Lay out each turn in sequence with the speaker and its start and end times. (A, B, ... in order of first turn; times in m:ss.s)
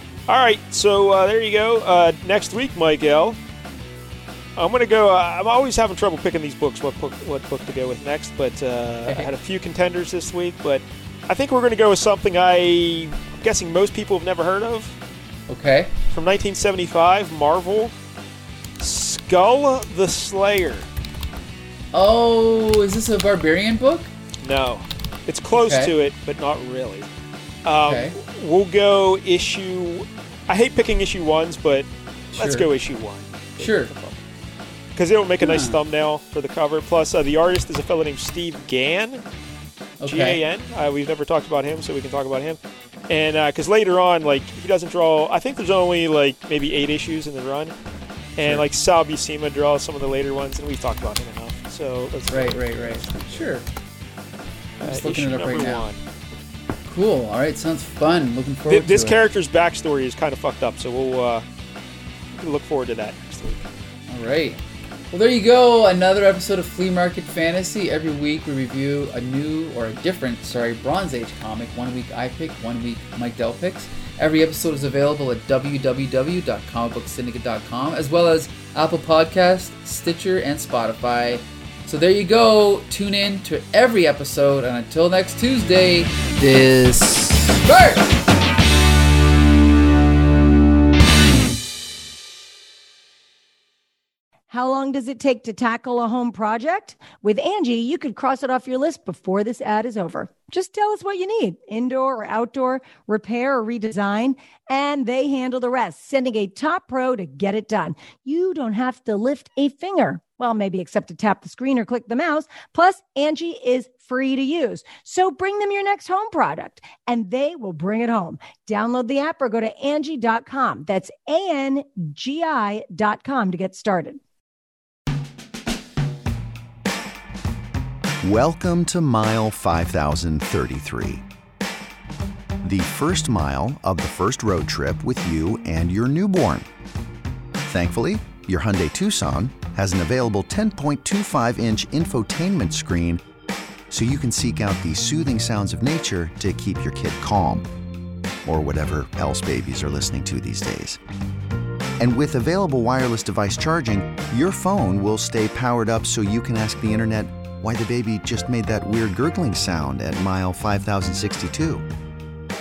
0:00.3-0:03.4 A
0:04.6-0:15.0 A
0:15.5-0:15.9 B
0:16.1-0:17.9 A
0:18.8-0:20.9 A
0:21.9-0:24.1 B
0:24.4-0:27.1 A
0:25.6-0:25.9 B
0:27.6-0:34.2 A
0:27.8-0:28.2 B
0:32.3-0:32.7 B
0:33.6-0:33.9 B
0:35.0-0:39.2 A
0:35.4-0:35.8 B
0:40.0-0:40.4 B
0:40.0-0:47.7 A
0:48.4-0:53.5 A
0:48.4-0:48.7 B
0:52.3-0:53.6 B
0:54.8-0:55.9 B
0:54.8-0:56.0 A
0:56.8-0:59.2 B
0:58.7-1:01.4 A
1:02.4-1:03.7 A
1:04.1-1:04.6 B
1:05.1-1:28.2 B
1:34.5-2:04.2 C
2:08.2-2:11.2 D
2:12.6-2:16.7 D
2:17.6-2:23.2 D
2:23.9-2:27.7 D
2:28.4-2:31.0 D
2:32.0-2:41.9 D